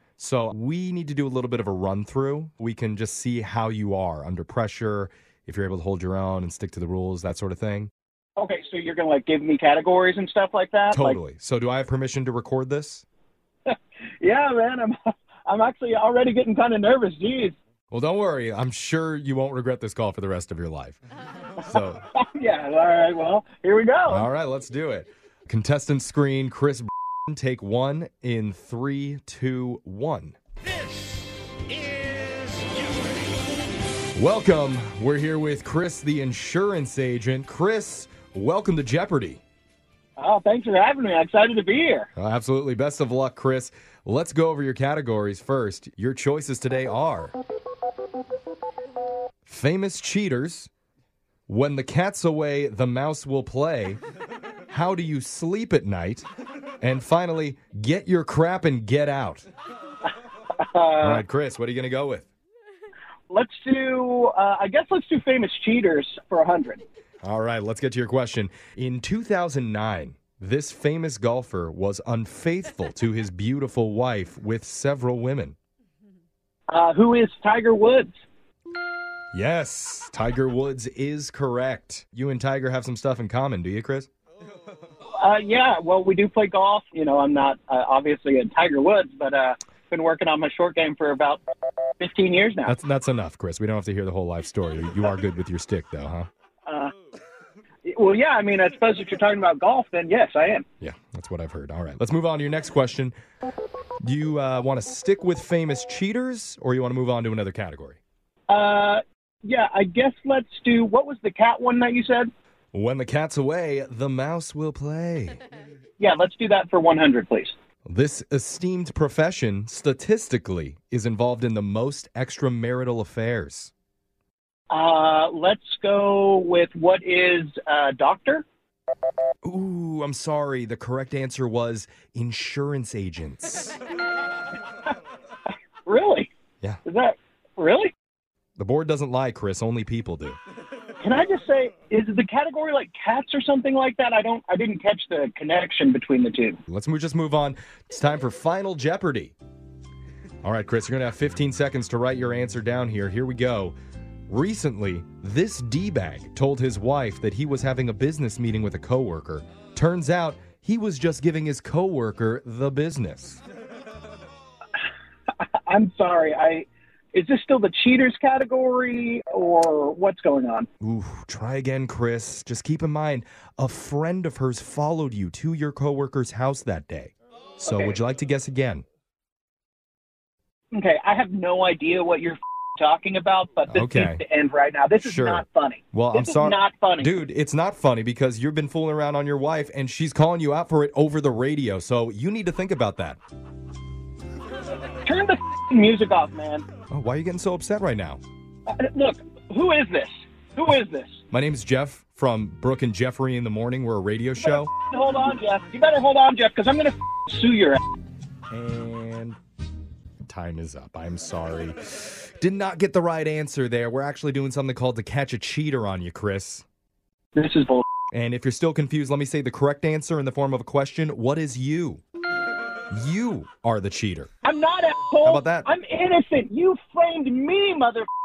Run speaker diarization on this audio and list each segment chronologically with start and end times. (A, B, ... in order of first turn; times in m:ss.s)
0:00.2-0:07.9 A
0:08.4-0:11.2 B
0:10.9-0:13.0 A
0:13.7-0:17.5 B
0:17.9-0:21.0 A
0:21.6-0:22.0 A
0:22.2-0:24.2 B
0:24.1-0:30.4 A
0:34.1-0:39.4 A
0:40.2-0:42.1 B
0:42.2-0:47.3 A
0:49.4-0:50.7 A
0:51.5-0:54.0 A
0:54.7-0:56.3 A
0:56.8-0:59.4 A
1:00.7-1:01.2 B
1:01.0-1:02.3 A
1:03.3-1:06.8 B
1:07.2-1:15.6 A
1:16.7-1:18.1 B
1:19.3-1:24.1 A
1:25.2-1:31.4 B
1:32.0-1:32.8 B
1:32.7-1:36.3 A
1:36.7-1:36.9 B
1:37.8-1:40.6 B
1:40.8-1:43.1 A
1:44.0-1:48.0 A
1:48.5-1:52.3 B
1:52.7-1:55.4 A
1:56.0-1:57.5 B
1:57.8-2:03.7 A
2:04.7-2:08.4 B
2:09.4-2:13.8 A
2:15.8-2:16.3 B
2:16.8-2:17.9 B
2:18.6-2:20.4 A
2:21.0-2:26.6 B
2:26.7-2:29.3 A
2:30.4-2:33.8 A
2:34.3-2:43.4 A
2:45.7-2:50.7 B
2:50.8-2:58.8 A
2:57.6-2:58.0 B
3:00.7-3:07.1 B
3:03.7-3:04.2 A
3:05.0-3:13.2 A
3:15.0-3:16.7 B
3:16.9-3:18.2 A
3:18.7-3:21.2 B
3:21.3-3:24.7 A
3:24.4-3:27.8 B
3:28.5-3:29.4 A
3:30.2-3:36.6 A
3:37.3-3:37.8 B
3:38.1-3:42.0 A
3:42.9-3:44.3 A
3:44.4-3:48.1 B
3:45.2-3:45.7 A